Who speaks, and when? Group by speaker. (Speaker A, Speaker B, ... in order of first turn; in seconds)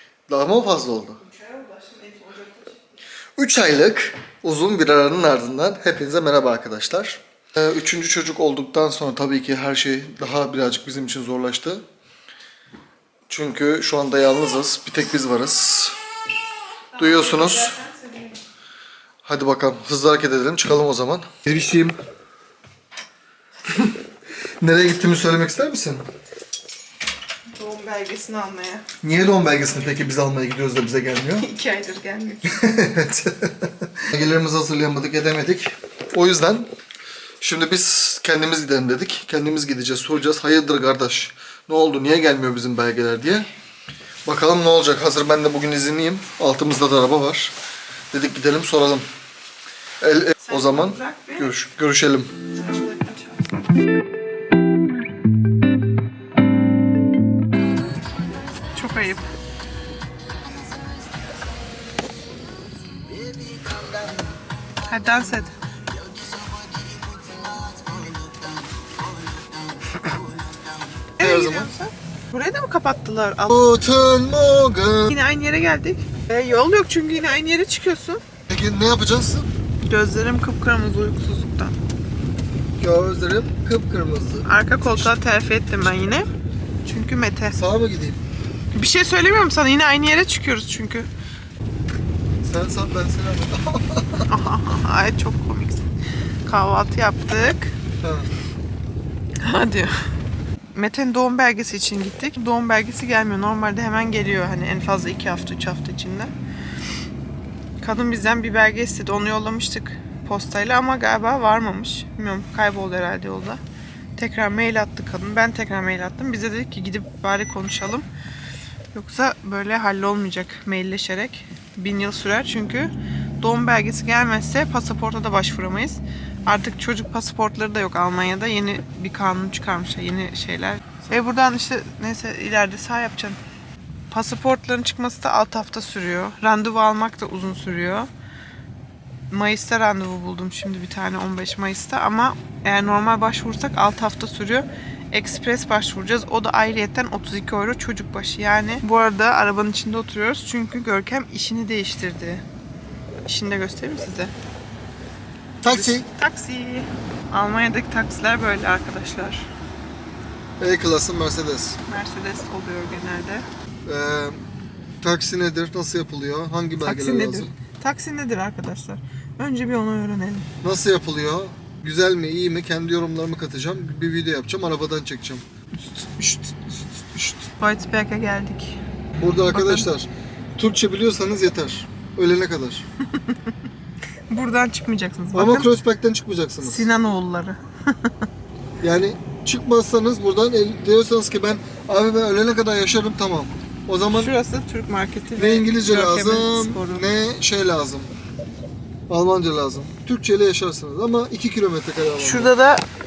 Speaker A: 0.3-1.2, 3.4-11.8, 13.3-16.0, 17.0-17.7, 19.2-22.0, 24.6-26.1, 29.0-31.5, 32.5-36.7, 37.4-43.5, 44.2-47.5, 48.1-49.1, 50.0-52.4, 71.2-71.7, 73.5-75.2, 78.5-79.5, 82.8-85.1, 87.5-88.2, 92.4-94.3, 98.0-98.3, 155.6-156.1, 160.6-161.8, 163.8-164.4, 165.0-167.5, 170.6-175.4, 179.1-182.8, 185.3-186.9, 188.8-194.3, 195.4-198.1, 199.1-202.5
Speaker B: 1.2-2.8, 16.9-18.4, 27.5-28.9, 31.4-32.6, 50.4-51.5, 52.5-53.6, 58.7-59.2, 64.9-65.6, 71.2-73.6, 75.1-78.2, 79.8-81.8, 84.5-86.3, 86.8-87.6, 88.7-91.1, 94.3-95.9, 96.5-97.8, 99.4-100.0, 100.7-106.3, 107.8-113.6, 114.2-118.1, 118.9-133.4, 134.1-138.1, 139.3-152.4, 153.3-154.3, 155.7-159.5, 161.9-163.4, 166.8-170.5, 175.9-178.8, 179.5-179.9, 184.3-185.7, 186.6-188.1, 194.1-197.1, 202.2-202.8